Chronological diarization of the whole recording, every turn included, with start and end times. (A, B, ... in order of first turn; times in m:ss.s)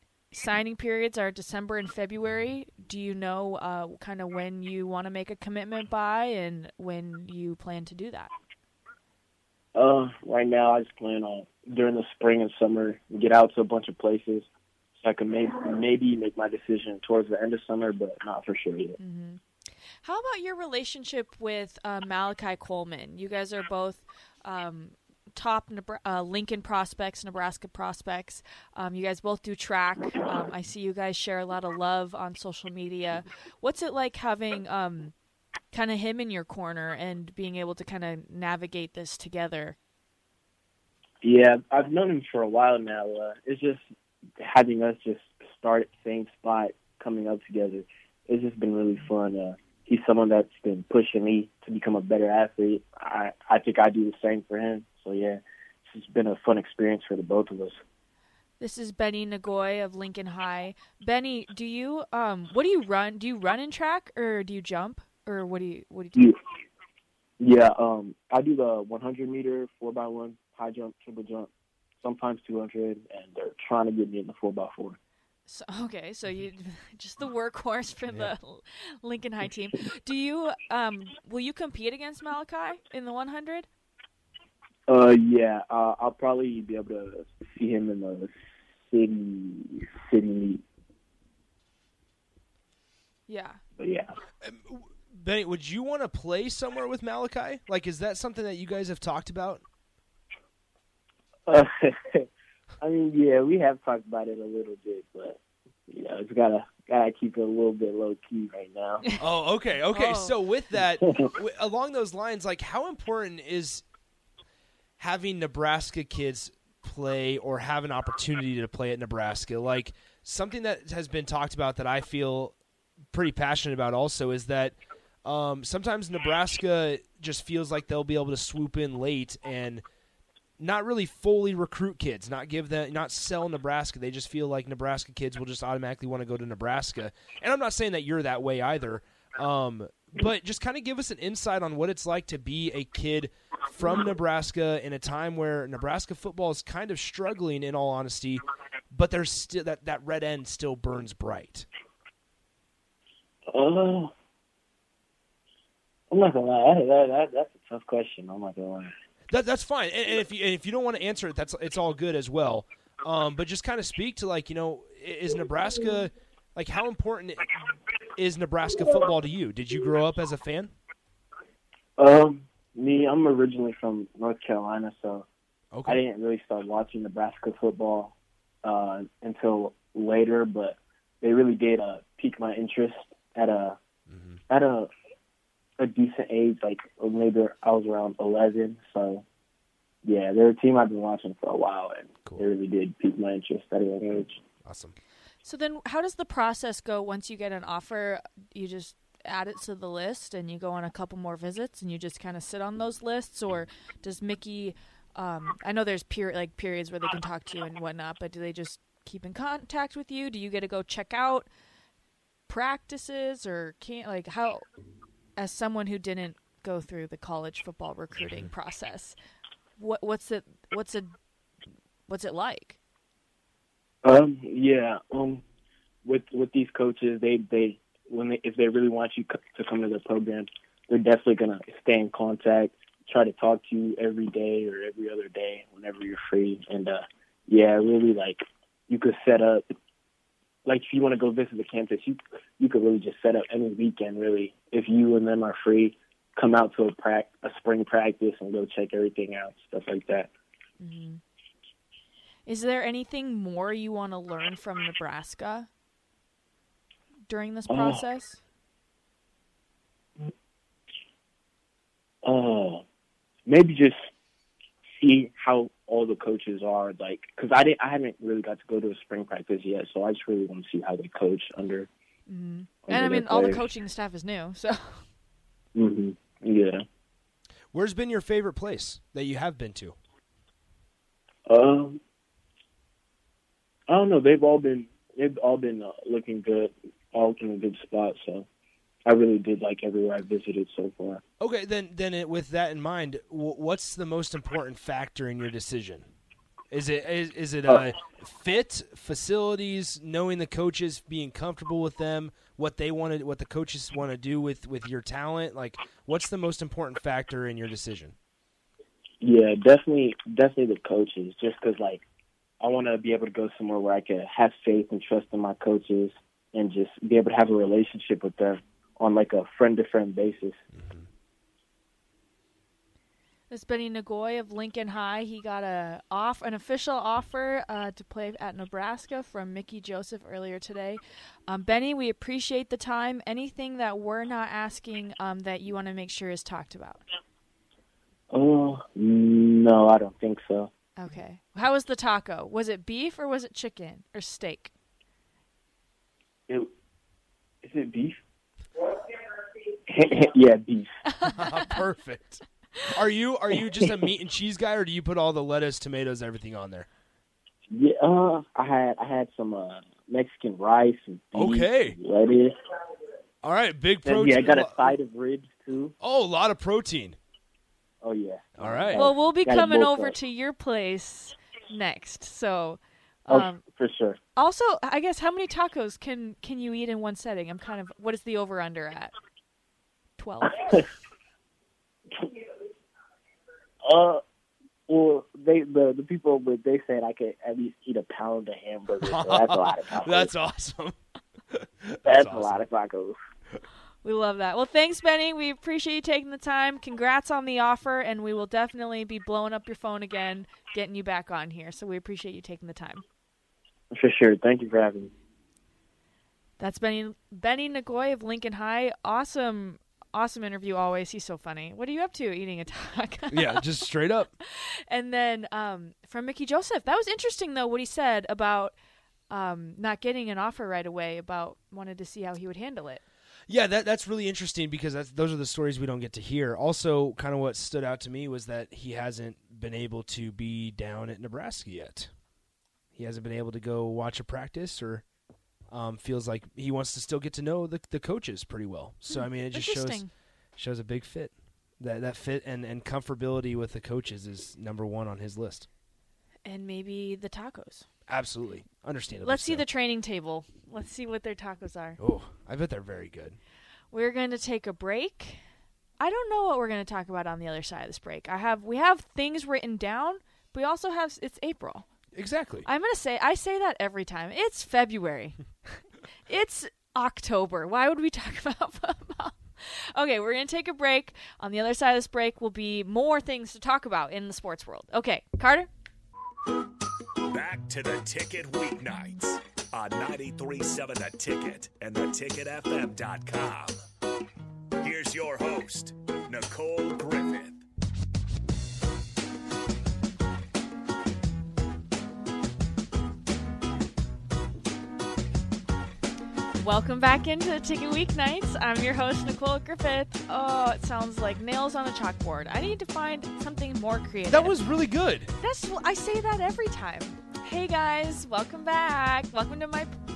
0:00.3-0:08.3 A
0:09.7-0:14.5 B
0:15.0-0:19.0 B
0:19.0-0:19.4 A
0:20.0-0:35.1 A
0:35.7-0:39.8 A
0:41.2-0:43.8 B
0:44.4-0:57.8 B
0:58.6-1:06.3 A
1:07.4-1:11.5 B
1:12.0-1:15.0 B
1:15.5-1:23.7 A
1:24.9-1:30.6 B
1:33.3-1:33.6 A
1:33.8-1:34.1 B
1:34.4-1:39.6 C
1:41.5-1:42.3 B
1:42.8-1:49.0 B
1:49.2-1:53.8 C
1:49.8-1:50.4 A
1:55.0-2:02.5 C
2:03.1-2:09.8 C
2:10.6-2:31.6 C
2:33.5-2:34.1 B
2:36.1-2:38.9 B
2:39.3-2:47.5 C
2:48.2-2:50.7 C
2:52.0-2:55.2 B
2:55.7-2:56.0 C
2:55.8-3:03.8 B
3:04.1-3:04.4 C
3:04.5-3:04.9 B
3:05.8-3:09.2 B
3:10.0-3:14.4 B
3:14.6-3:14.9 C
3:15.4-3:31.5 A
3:32.5-3:34.6 A
3:35.4-3:39.2 A
3:39.8-3:41.1 A
3:42.1-3:42.8 A
3:44.0-3:45.4 B
3:46.0-3:59.6 B
4:00.6-4:10.3 B
4:10.8-4:11.2 A
4:12.4-4:15.7 A
4:17.3-4:18.4 A
4:17.7-4:18.0 B
4:22.2-4:22.8 B
4:23.5-4:24.1 B
4:25.0-4:31.9 B
4:32.3-4:35.0 A
4:32.8-4:33.6 B
4:35.7-4:36.8 B
4:37.7-4:40.0 C
4:41.5-4:42.0 B
4:43.9-4:48.5 B
4:49.0-4:51.2 B
4:51.4-4:56.0 C
4:56.7-5:08.1 C
5:09.2-5:12.0 B
5:12.6-5:20.6 B
5:20.8-5:21.0 C
5:23.5-5:37.0 A
5:38.3-5:40.7 B
5:41.0-5:44.7 A
5:47.6-5:48.2 B
5:49.9-5:51.0 B
5:51.2-5:51.8 A
5:51.2-5:56.9 C
5:57.7-6:02.5 B
6:01.3-6:02.0 C
6:03.4-6:04.9 C
6:04.0-6:05.9 B
6:06.0-6:07.2 C
6:08.0-6:10.2 B
6:08.6-6:09.0 C
6:08.9-6:13.6 A
6:13.3-6:14.2 B
6:14.4-6:19.1 A
6:20.2-6:20.8 A
6:23.8-6:24.2 B
6:24.9-6:30.3 B
6:29.0-6:31.0 C
6:31.5-6:32.6 C
6:32.0-6:33.2 B
6:34.0-6:43.0 A
6:43.9-6:45.1 B
6:46.6-6:53.7 A
6:53.3-6:54.3 C
6:54.5-6:58.7 A
6:59.3-7:03.0 A
7:03.5-7:12.1 C
7:12.9-7:15.0 C
7:15.7-7:20.0 C
7:19.1-7:20.1 A
7:20.6-7:25.7 C
7:26.4-7:27.8 A
7:28.1-7:29.6 C
7:29.2-7:32.0 A
7:32.0-7:33.4 C
7:33.9-7:35.4 A
7:36.0-7:41.8 A
7:42.1-7:42.7 C
7:42.6-7:45.4 A
7:46.3-7:55.7 A
7:57.3-8:03.8 D
8:04.8-8:07.6 D
8:16.6-8:24.6 A
8:24.3-8:25.3 C
8:25.4-8:29.9 A